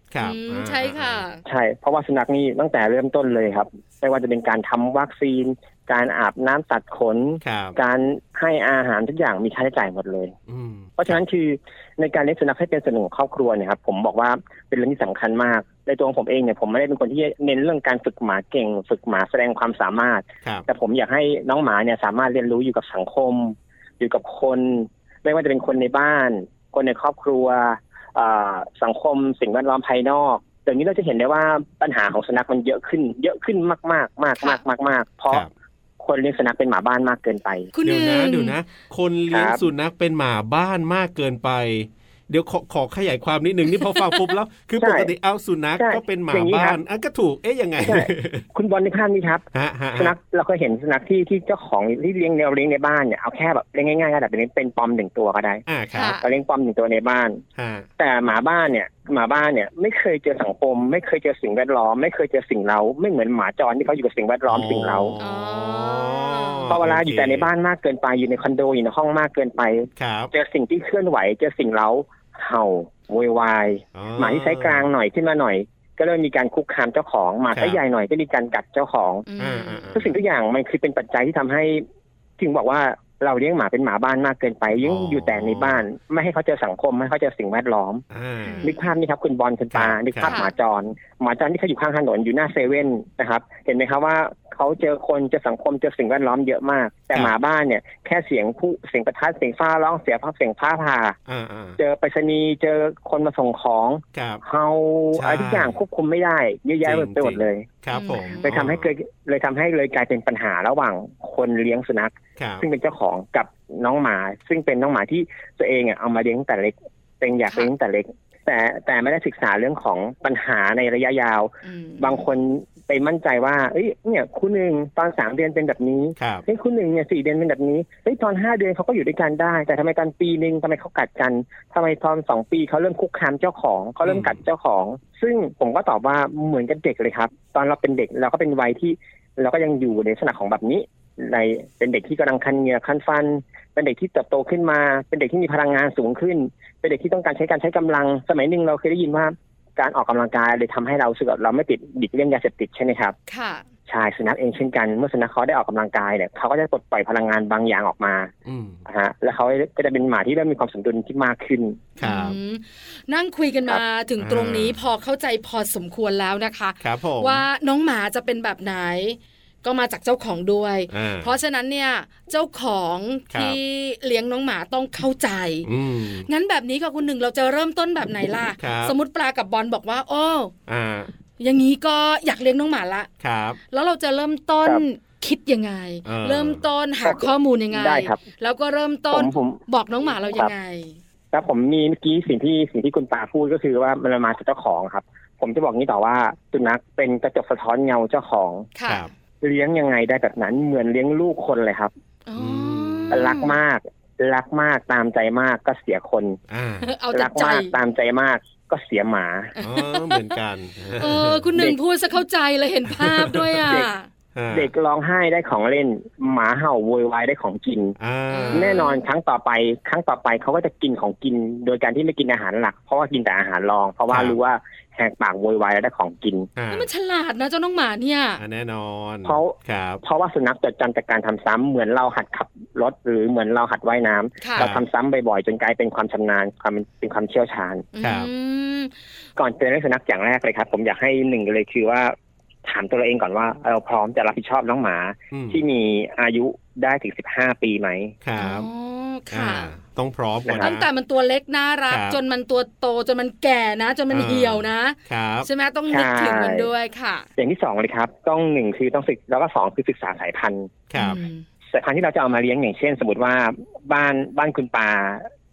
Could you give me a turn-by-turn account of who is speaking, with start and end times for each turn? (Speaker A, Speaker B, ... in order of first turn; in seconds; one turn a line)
Speaker A: 0.1-1.2
Speaker B: 0.2-1.4
Speaker C: 1.4-10.3
Speaker A: 7.4-7.8
Speaker A: 10.5-11.2
Speaker C: 11.0-35.5
Speaker C: 36.0-37.7
Speaker B: 37.7-38.6
Speaker A: 37.8-48.5
Speaker C: 39.3-39.6
Speaker B: 43.8-44.3
Speaker C: 44.8-45.1
Speaker C: 45.8-46.8
Speaker C: 47.8-55.6
Speaker A: 49.5-50.1
Speaker A: 55.7-56.2
Speaker B: 56.0-56.2
Speaker C: 56.2-57.4
Speaker A: 57.6-57.9
Speaker C: 58.0-65.2
Speaker A: 64.5-67.5
Speaker B: 65.2-66.8
Speaker C: 66.7-79.2
Speaker A: 70.0-70.3
Speaker A: 73.9-74.9
Speaker A: 77.5-77.8
Speaker B: 79.3-79.9
Speaker A: 79.4-80.2
Speaker C: 79.9-81.8
Speaker C: 82.4-88.0
Speaker A: 84.8-85.8
Speaker A: 88.1-88.7
Speaker B: 88.4-88.8
Speaker C: 88.6-101.2
Speaker A: 89.7-90.4
Speaker B: 90.2-90.5
Speaker A: 101.3-101.8
Speaker C: 101.8-107.7
Speaker A: 104.1-104.4
Speaker A: 105.2-105.8
Speaker A: 106.8-108.9
Speaker B: 107.9-108.5
Speaker C: 108.4-153.2
Speaker A: 112.4-112.6
Speaker B: 121.6-122.2
Speaker A: 126.2-126.5
Speaker A: 134.0-134.4
Speaker B: 153.3-153.6
Speaker C: 153.9-158.3
Speaker A: 158.4-158.8
Speaker C: 158.9-161.8
Speaker A: 162.0-162.4
Speaker B: 162.0-175.7
Speaker A: 164.2-164.8
Speaker A: 166.8-167.4
Speaker A: 170.9-171.3
Speaker A: 173.3-173.6
Speaker A: 175.7-176.3
Speaker B: 176.2-180.5
Speaker A: 178.6-179.0
Speaker A: 180.7-181.1
Speaker B: 181.4-183.1
Speaker A: 183.2-183.6
Speaker B: 183.7-191.0
Speaker A: 186.1-186.7
Speaker C: 187.0-188.2
Speaker C: 189.1-189.6
Speaker C: 191.3-198.7
Speaker B: 198.8-199.1
Speaker C: 199.4-201.9
Speaker B: 202.3-203.6
Speaker A: 202.4-203.3
Speaker C: 203.1-206.4
Speaker A: 206.5-206.9
Speaker B: 206.8-207.7
Speaker C: 207.1-209.5
Speaker B: 209.6-210.4
Speaker A: 209.6-211.5
Speaker B: 211.0-214.1
Speaker A: 212.9-213.8
Speaker A: 214.3-214.7
Speaker C: 214.5-217.9
Speaker A: 218.0-218.9
Speaker B: 218.3-219.0
Speaker C: 218.5-226.5
Speaker A: 224.1-224.4
Speaker A: 226.6-226.9
Speaker B: 226.7-228.4
Speaker A: 228.4-230.0
Speaker C: 229.2-237.9
Speaker B: 234.4-234.7
Speaker A: 234.6-234.8
Speaker B: 237.9-238.9
Speaker A: 238.0-238.3
Speaker C: 239.4-248.1
Speaker A: 245.3-245.6
Speaker A: 248.2-248.7
Speaker B: 248.4-249.7
Speaker A: 249.3-250.9
Speaker C: 250.4-250.7
Speaker B: 250.6-257.3
Speaker A: 251.9-252.2
Speaker A: 254.1-255.5
Speaker C: 255.9-256.7
Speaker C: 257.4-260.7
Speaker A: 260.9-261.2
Speaker B: 260.9-261.4
Speaker C: 261.7-265.3